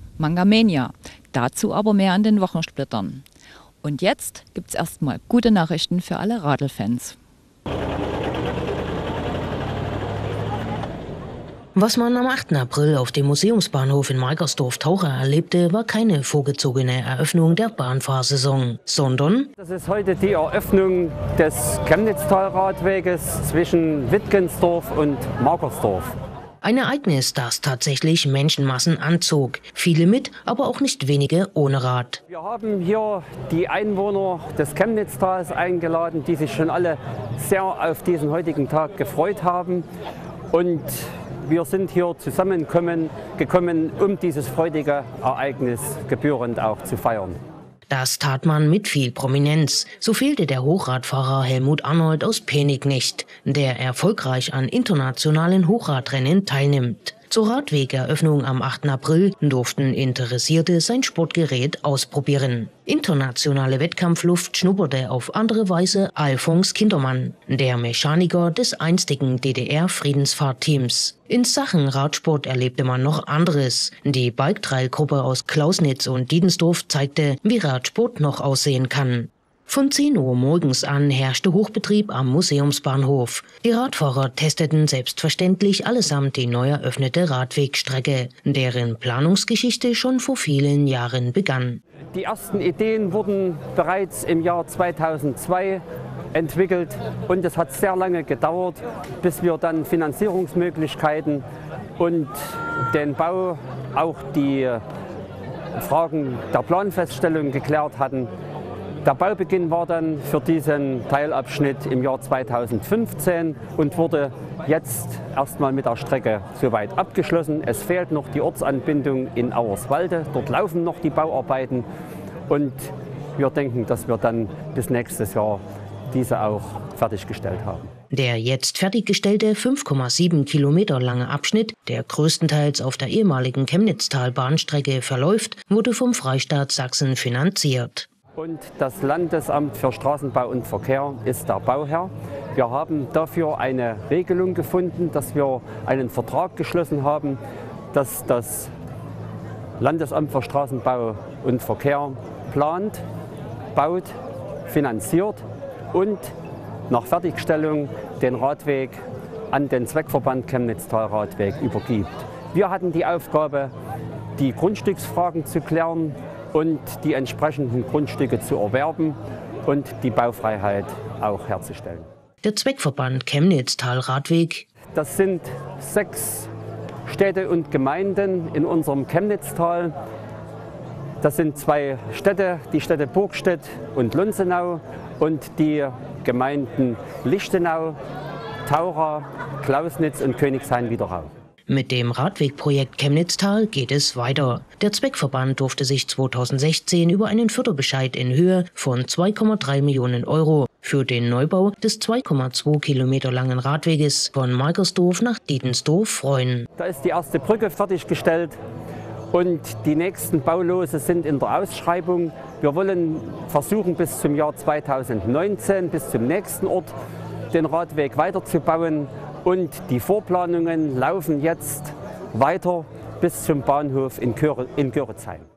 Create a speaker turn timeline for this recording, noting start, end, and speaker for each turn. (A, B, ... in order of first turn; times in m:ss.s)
0:00.2-0:03.2 A
0:03.8-0:07.2 A
0:11.8-0:19.5 B
0:19.6-0:26.1 C
0:26.6-0:32.2 B
0:32.3-0:39.9 C
0:40.5-0:47.4 C
0:47.9-1:31.8 B
1:32.1-1:41.5 C
1:42.0-1:44.8 C
1:45.8-1:48.3 C
1:49.0-2:01.9 C
2:02.5-2:07.9 C
2:08.1-2:18.1 B
2:18.4-2:27.4 C
2:27.9-2:28.7 C
2:29.8-2:33.0 C
2:33.7-2:34.2 C
2:34.7-2:36.3 C
2:36.9-2:43.7 C
2:44.4-2:52.1 C
2:52.4-2:54.7 B
2:54.9-2:56.5 C
2:57.1-3:00.0 C
3:01.2-3:08.0 C
3:08.7-3:11.3 C
3:11.7-3:26.7 B
3:26.8-3:28.6 C
3:29.3-3:37.0 C
3:37.5-3:45.5 C